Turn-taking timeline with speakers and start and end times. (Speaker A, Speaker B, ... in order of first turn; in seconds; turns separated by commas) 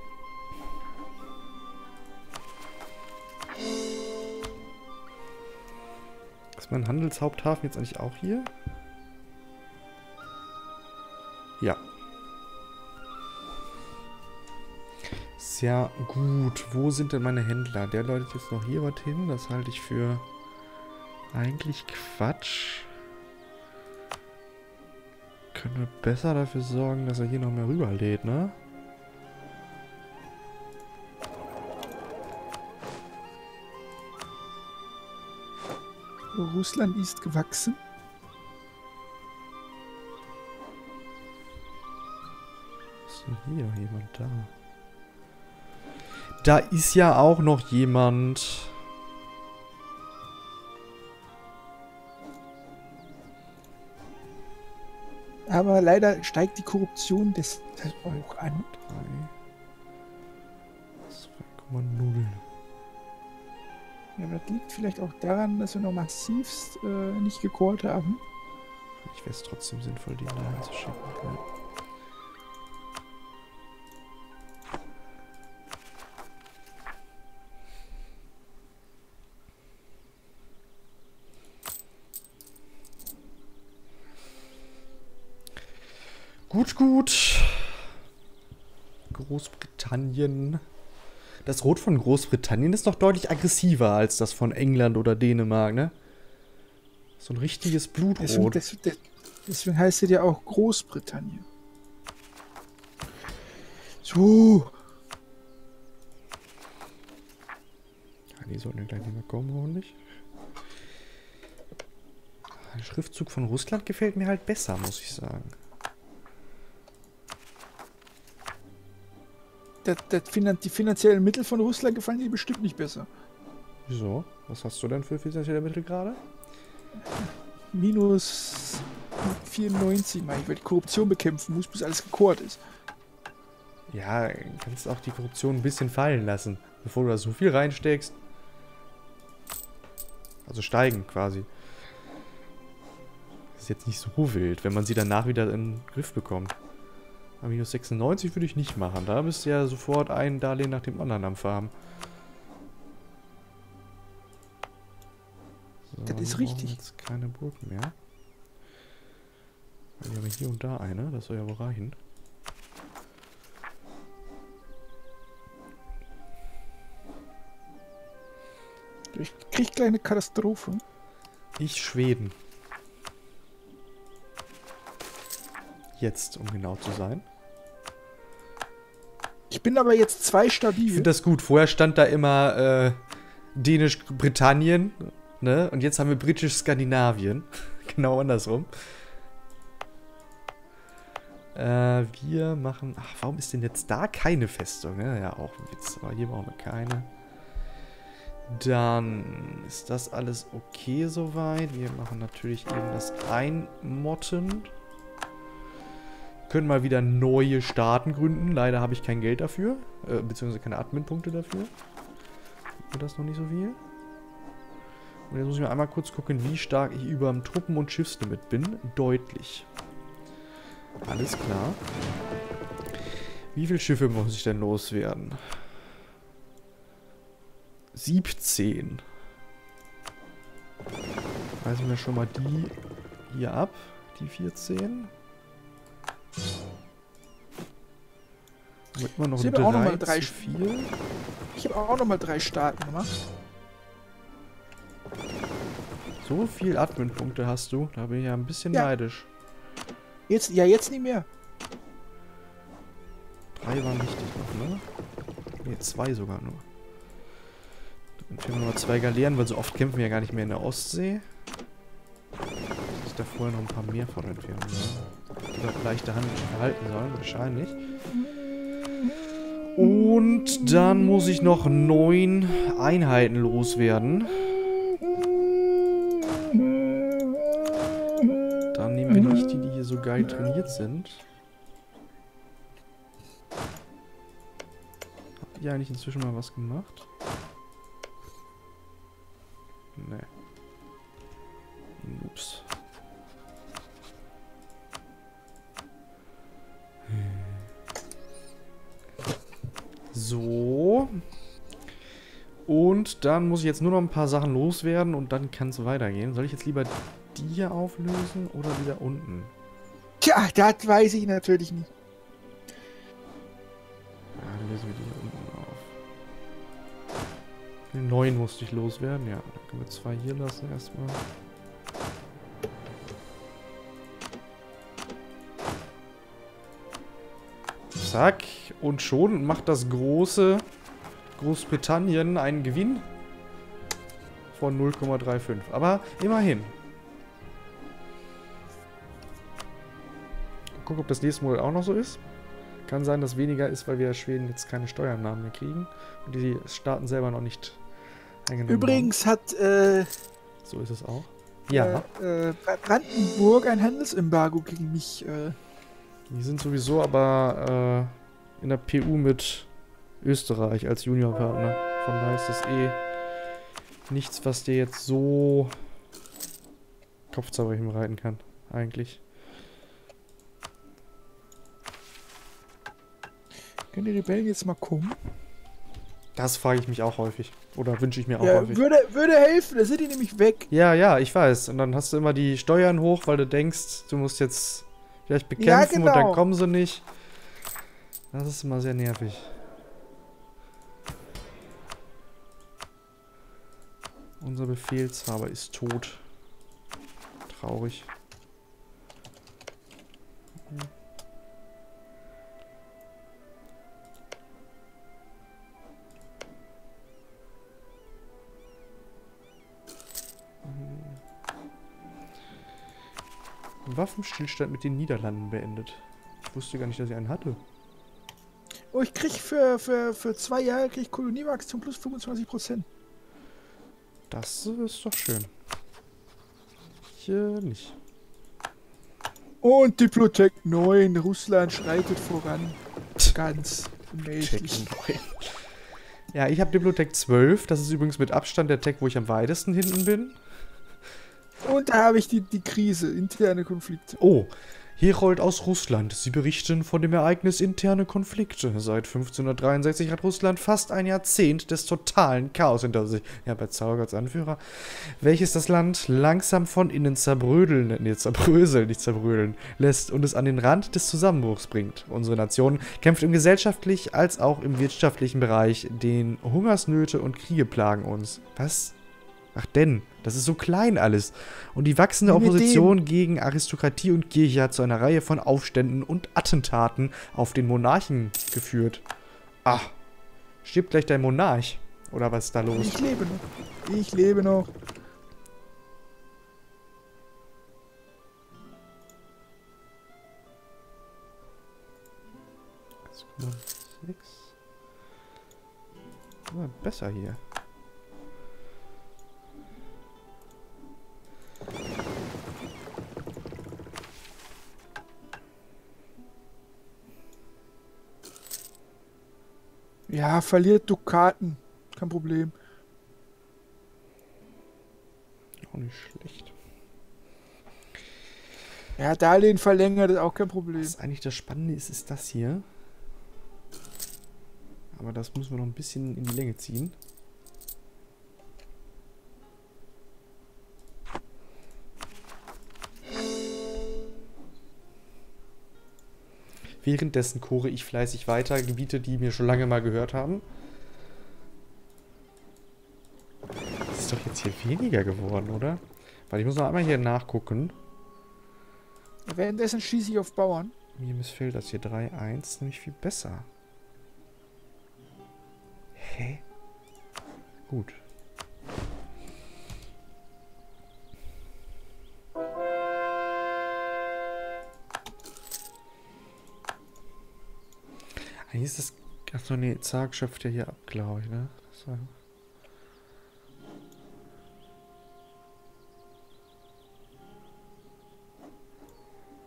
Speaker A: 6.5-8.5, Speaker A: 15.4-20.2, Speaker A: 21.3-22.9, Speaker A: 25.5-28.6, Speaker B: 36.3-37.8, Speaker A: 43.1-44.5, Speaker A: 46.4-48.8, Speaker B: 55.5-58.6, Speaker A: 57.8-59.3, Speaker A: 61.1-62.4, Speaker B: 64.2-68.2, Speaker A: 69.0-71.4, Speaker A: 86.5-87.9, Speaker A: 89.1-90.6, Speaker A: 91.4-95.9, Speaker A: 97.2-98.6, Speaker B: 98.2-101.4, Speaker B: 104.0-104.7, Speaker A: 108.3-110.0, Speaker A: 112.6-115.5, Speaker B: 119.8-123.1, Speaker A: 123.9-126.2, Speaker B: 127.2-132.6, Speaker A: 133.9-138.2, Speaker A: 140.4-141.5, Speaker A: 143.6-146.6, Speaker A: 147.4-151.7, Speaker A: 155.9-157.9, Speaker B: 156.1-156.8, Speaker A: 160.0-162.0, Speaker B: 169.1-170.8, Speaker A: 171.6-172.3, Speaker A: 176.0-177.2, Speaker B: 179.5-181.1, Speaker A: 180.8-183.0, Speaker A: 183.5-188.7, Speaker A: 191.5-197.1, Speaker A: 198.5-204.7, Speaker A: 206.5-211.7, Speaker A: 212.8-213.8, Speaker A: 215.3-219.7, Speaker A: 221.0-221.8, Speaker A: 223.5-225.7, Speaker A: 227.9-229.0, Speaker A: 231.6-232.7, Speaker A: 233.3-235.1, Speaker A: 238.9-240.9, Speaker B: 239.4-240.5, Speaker B: 241.5-243.1, Speaker A: 246.2-249.3, Speaker B: 250.3-251.3, Speaker A: 253.5-254.8, Speaker A: 255.6-256.6, Speaker A: 258.2-261.2, Speaker A: 262.9-267.8, Speaker A: 269.7-274.8, Speaker A: 278.7-281.2, Speaker A: 285.5-287.1, Speaker A: 289.9-290.3, Speaker A: 292.0-292.7, Speaker A: 297.1-297.7, Speaker A: 300.1-301.1, Speaker A: 302.6-309.5, Speaker B: 310.2-311.9, Speaker A: 314.4-315.9, Speaker A: 317.9-321.2, Speaker A: 327.9-330.6, Speaker A: 331.4-333.0, Speaker A: 334.5-336.7, Speaker A: 340.7-342.2, Speaker A: 342.9-347.8, Speaker A: 348.4-349.1, Speaker B: 348.7-350.1, Speaker A: 350.6-352.1, Speaker B: 351.7-355.6, Speaker A: 356.3-359.7, Speaker A: 360.2-363.0, Speaker A: 364.1-365.8, Speaker A: 367.3-369.2, Speaker B: 373.9-375.2, Speaker A: 376.3-378.8, Speaker B: 378.4-380.7, Speaker A: 380.7-387.1, Speaker B: 385.6-386.4, Speaker A: 388.3-389.6, Speaker A: 394.4-396.2, Speaker A: 397.5-398.1, Speaker A: 400.6-400.9, Speaker A: 410.6-411.2, Speaker A: 413.8-417.6, Speaker B: 418.9-422.9, Speaker A: 424.3-425.5, Speaker A: 427.1-428.0, Speaker B: 429.6-432.8, Speaker B: 433.3-434.9, Speaker A: 434.4-435.6, Speaker A: 436.3-440.4, Speaker B: 441.6-444.2, Speaker A: 444.2-468.9, Speaker A: 469.5-479.0, Speaker B: 472.2-473.0, Speaker A: 479.6-479.9, Speaker A: 480.6-483.0, Speaker B: 482.7-484.7, Speaker A: 493.1-494.5, Speaker A: 496.5-497.4, Speaker B: 510.1-512.5, Speaker A: 515.7-516.5, Speaker B: 519.0-520.9, Speaker A: 520.8-522.6, Speaker A: 524.9-527.0, Speaker A: 536.8-540.4, Speaker A: 543.9-547.8, Speaker B: 549.3-550.7, Speaker A: 551.0-553.5, Speaker A: 556.0-556.4, Speaker A: 557.7-558.0, Speaker A: 568.4-572.1